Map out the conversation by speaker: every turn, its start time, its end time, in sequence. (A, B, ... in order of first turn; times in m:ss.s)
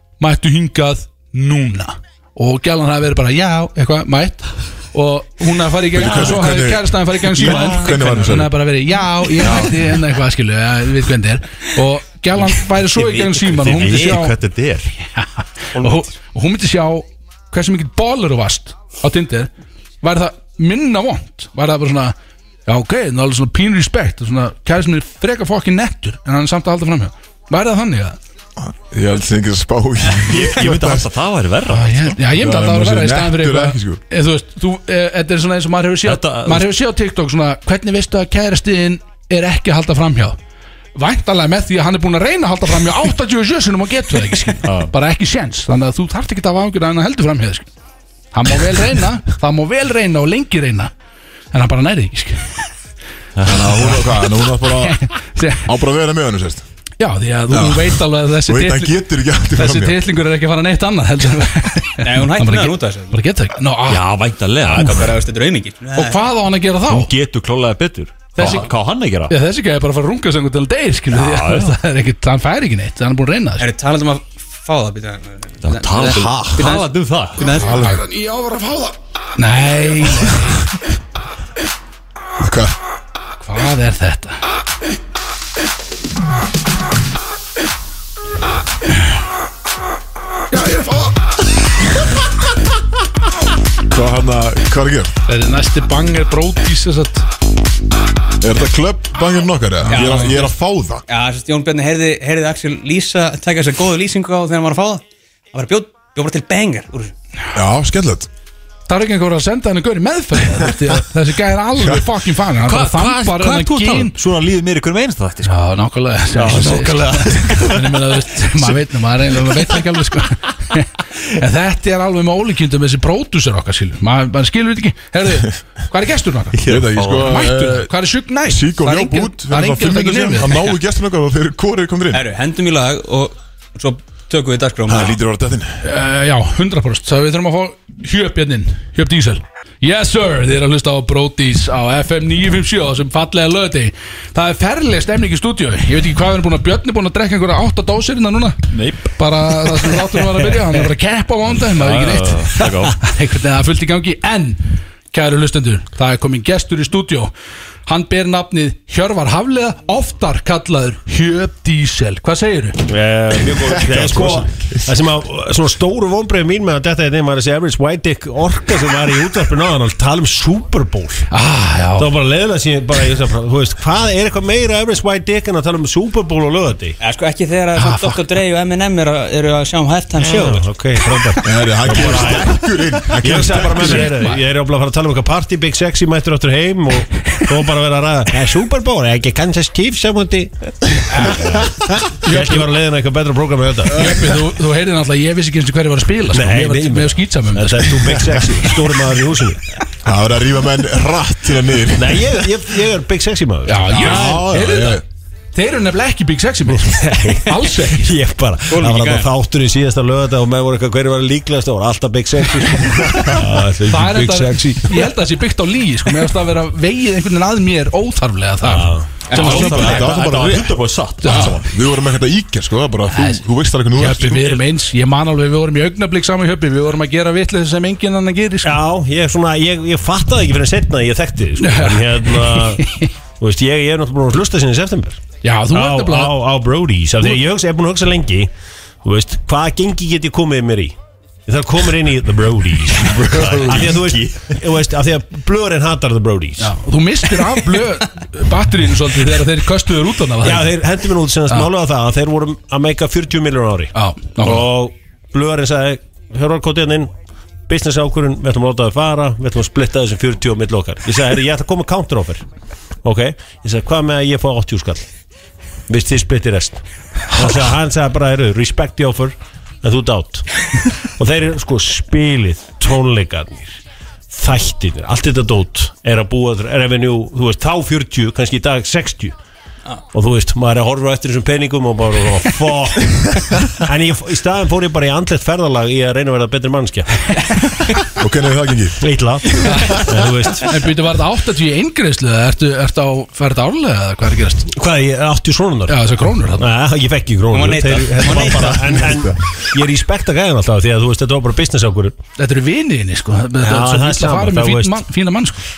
0:00.2-0:14.4 A
0:05.9-0:08.6 B
0:07.5-0:08.1 C
0:09.4-0:09.8 B
0:13.3-0:14.9 C
0:13.7-0:14.1 D
0:15.7-0:19.5 A
0:20.0-0:22.2 A
0:22.7-0:28.2 A
0:28.6-0:31.1 B
0:30.1-0:32.2 C
0:31.7-0:40.4 A
0:32.3-0:34.0 B
0:36.0-0:36.7 C
0:41.0-0:47.7 A
0:44.6-0:44.9 C
0:48.3-0:50.9 A
0:51.5-0:52.7 A
0:53.4-0:54.0 C
0:53.4-0:55.0 B
0:53.8-0:55.7 A
0:55.7-0:56.6 B
0:57.0-0:59.0 A
0:57.5-1:00.0 B
0:59.5-1:04.0 A
1:02.0-1:03.2 D
1:03.9-1:05.2 C
1:04.7-1:06.2 D
1:05.9-1:07.1 A
1:06.9-1:09.3 C
1:08.4-1:08.7 A
1:09.3-1:13.6 A
1:11.1-1:11.8 C
1:13.6-1:18.0 D
1:15.6-1:17.5 C
1:16.0-1:16.6 B
1:17.5-1:18.1 B
1:19.4-1:20.7 A
1:22.4-1:22.7 B
1:23.5-1:24.4 A
1:30.5-1:31.1 A
1:33.9-1:35.1 B
1:35.3-1:37.3 A
1:38.4-1:41.0 B
1:39.9-1:40.4 A
1:39.9-1:40.5 D
1:41.1-1:45.0 D
1:45.5-1:47.1 D
1:47.6-1:48.3 B
1:48.9-1:54.2 A
1:52.6-1:55.5 C
1:55.4-2:06.6 A
1:56.3-1:57.9 C
2:06.6-2:07.5 C
2:06.7-2:07.9 B
2:07.2-2:10.6 A
2:08.5-2:12.2 B
2:12.1-2:15.2 D
2:14.9-2:15.8 B
2:15.8-2:37.3 A
2:28.7-2:30.3 C
2:31.5-2:33.0 C
2:37.9-2:42.8 A
2:42.9-2:51.3 E
2:43.9-2:44.3 B
2:51.3-2:52.1 A
2:52.0-2:57.0 E
2:57.0-3:00.6 D
2:57.8-2:58.2 A
3:00.2-3:02.6 E
3:01.4-3:04.2 B
3:03.2-3:10.5 E
3:03.8-3:04.4 A
3:11.1-3:11.6 A
3:11.2-3:14.2 E
3:12.2-3:12.7 A
3:13.9-3:18.2 A
3:16.3-3:19.6 E
3:20.0-3:22.6 B
3:22.0-3:24.1 E
3:23.7-3:25.0 A
3:23.9-3:25.0 B
3:25.5-3:28.2 A
3:26.8-3:35.1 E
3:28.7-3:29.3 D
3:33.9-3:40.2 A
3:38.6-3:39.2 E
3:39.3-3:41.7 C
3:39.3-3:44.6 B
3:41.2-3:41.6 A
3:43.1-3:43.4 A
3:44.0-3:48.8 A
3:48.6-3:52.9 E
3:51.6-3:53.1 A
3:53.4-3:58.5 E
3:55.4-3:56.4 A
3:59.0-4:06.7 E
4:03.2-4:04.4 C
4:06.6-4:10.8 A
4:10.4-4:17.1 E
4:13.9-4:14.7 A
4:17.7-4:22.4 E
4:23.0-4:25.1 E
4:25.9-4:30.5 E
4:31.2-4:33.8 E
4:34.3-4:39.4 E
4:40.1-4:43.2 E
4:43.8-4:47.1 E
4:48.2-4:49.0 B
4:49.0-4:50.7 E
4:49.6-4:54.7 A
4:54.7-4:56.0 E
4:55.9-4:56.7 A
4:56.6-5:02.2 E
4:57.5-4:59.1 D
4:58.5-4:59.3 B
5:02.4-5:05.6 A
5:03.6-5:05.0 E